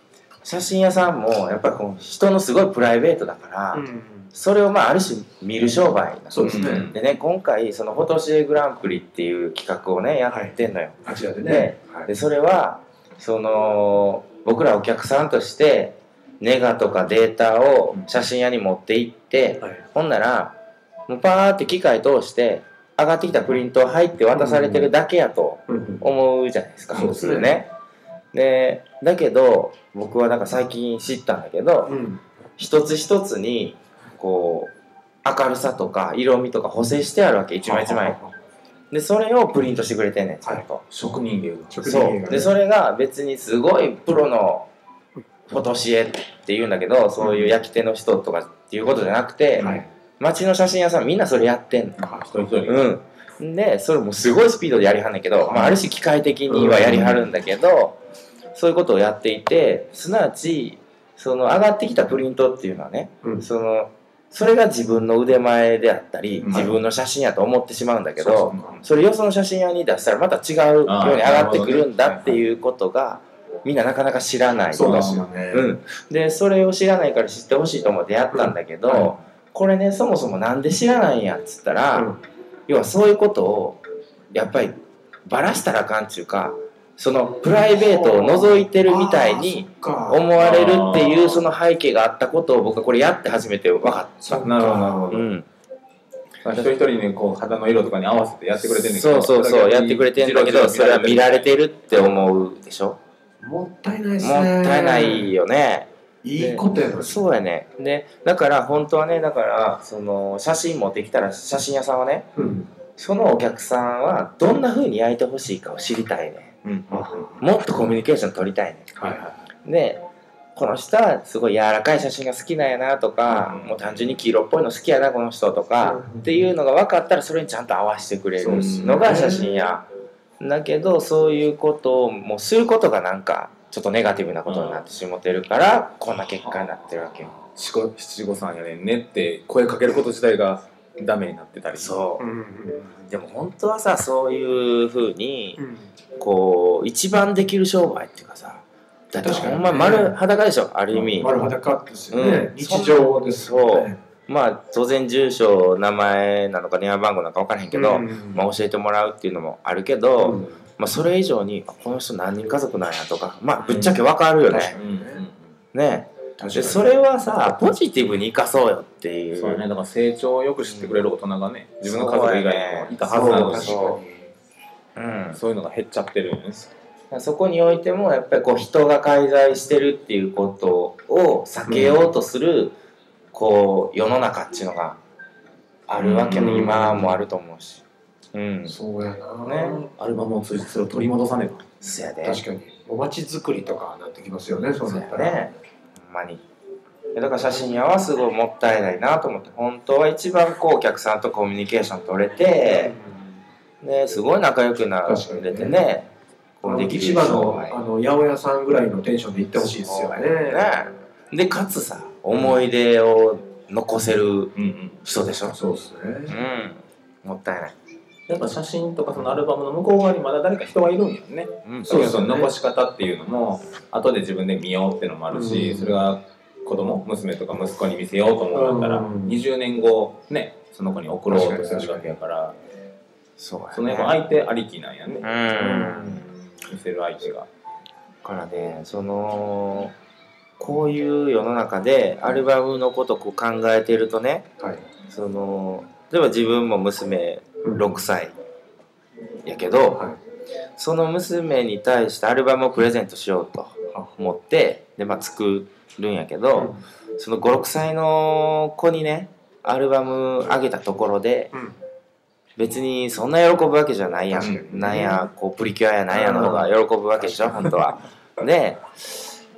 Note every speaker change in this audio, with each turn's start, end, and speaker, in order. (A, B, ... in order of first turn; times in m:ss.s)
0:00.4-0:20.6 A
0:03.7-0:04.3 B
0:06.3-0:06.9 B
0:06.4-0:07.0 C
0:10.3-0:12.1 B
0:21.1-0:27.7 A
0:24.3-0:24.9 B
0:25.7-0:26.1 B
0:26.9-0:27.3 C
0:26.9-0:27.6 B
0:28.3-0:32.0 A
0:31.9-0:32.2 B
0:32.6-0:34.7 A
0:35.2-0:38.2 A
0:37.6-0:38.3 B
0:38.9-0:40.9 A
0:40.9-0:42.1 C
0:41.7-0:42.5 B
0:41.8-0:44.7 A
0:45.5-0:52.1 A
0:47.2-0:47.5 B
0:49.6-0:49.9 B
0:52.0-0:52.9 C
0:52.0-0:52.6 B
0:52.6-0:58.0 A
0:55.5-0:55.8 B
0:56.5-0:57.3 B
0:58.5-1:22.1 A
1:06.4-1:06.8 C
1:08.2-1:08.8 B
1:08.5-1:08.8 C
1:10.8-1:12.4 C
1:14.7-1:15.7 B
1:14.8-1:15.3 C
1:18.3-1:19.1 B
1:21.9-1:22.2 B
1:22.7-1:23.8 A
1:24.3-1:34.5 A
1:27.7-1:30.3 B
1:30.4-1:31.5 C
1:34.2-1:35.2 B
1:34.4-1:35.3 C
1:35.1-1:35.5 A
1:36.4-1:41.5 C
1:38.7-1:43.0 A
1:43.4-1:45.3 B
1:44.2-1:52.3 A
1:46.2-1:47.2 B
1:52.4-1:52.7 B
1:53.0-1:56.6 A
1:56.6-1:57.3 C
1:56.9-1:57.4 B
1:57.4-1:58.9 A
1:59.0-1:59.5 C
1:59.6-2:00.0 A
2:00.6-2:09.9 A
2:03.3-2:04.2 C
2:05.8-2:06.5 B
2:08.4-2:09.2 C
2:08.9-2:09.6 B
2:10.4-2:17.3 A
2:14.4-2:14.9 C
2:17.5-2:22.0 C
2:21.7-2:22.2 A
2:22.2-2:23.0 B
2:23.0-2:25.6 A
2:25.6-2:25.9 B
2:26.2-2:31.3 A
2:29.2-2:30.2 B
2:30.9-2:31.2 C
2:31.2-2:34.0 B
2:32.1-2:44.8 A
2:37.7-2:38.4 B
2:40.2-2:40.6 B
2:43.7-2:44.0 C
2:44.5-2:45.2 B
2:44.7-2:45.5 C
2:45.7-2:49.6 A
2:46.4-2:46.9 B
2:49.4-2:53.9 C
2:50.6-2:51.0 A
2:51.8-2:54.0 A
2:53.1-2:54.3 B
2:55.0-2:55.4 A
2:55.3-2:56.7 C
2:57.1-3:02.8 A
3:01.7-3:02.1 B
3:03.3-3:05.0 A
3:05.9-3:08.8 A
3:06.0-3:07.2 C
3:06.4-3:06.8 B
3:08.7-3:09.9 B
3:09.4-3:09.8 A
3:10.0-3:11.6 C
3:10.8-3:11.1 B
3:11.8-3:12.4 A
3:12.2-3:15.5 B
3:14.8-3:16.4 A
3:17.1-3:23.0 A
3:22.6-3:23.3 B
3:23.8-3:27.8 A
3:25.0-3:25.8 B
3:26.6-3:30.8 B
3:29.6-3:34.5 A
3:34.6-3:35.0 C
3:35.0-3:35.6 A
3:35.5-3:36.4 B
3:36.3-3:37.8 A
3:38.3-3:52.6 C
3:39.2-3:39.4 B
3:41.6-3:42.0 A
3:41.8-3:42.5 B
3:45.3-3:46.0 B
3:48.5-3:49.4 B
3:51.3-3:52.2 B
3:53.4-3:54.2 A
3:53.7-3:55.3 C
3:55.2-3:56.4 A
3:55.5-3:56.4 B
3:56.6-3:57.5 C
3:58.2-3:59.9 A
4:00.6-4:04.5 A
4:05.1-4:08.4 A
4:07.6-4:08.0 B
4:09.4-4:10.1 A
4:09.9-4:10.2 B
4:10.8-4:21.5 A
4:16.6-4:16.8 B
4:22.6-4:29.2 A
4:24.3-4:25.3 B
4:24.4-4:24.8 C
4:26.1-4:26.7 B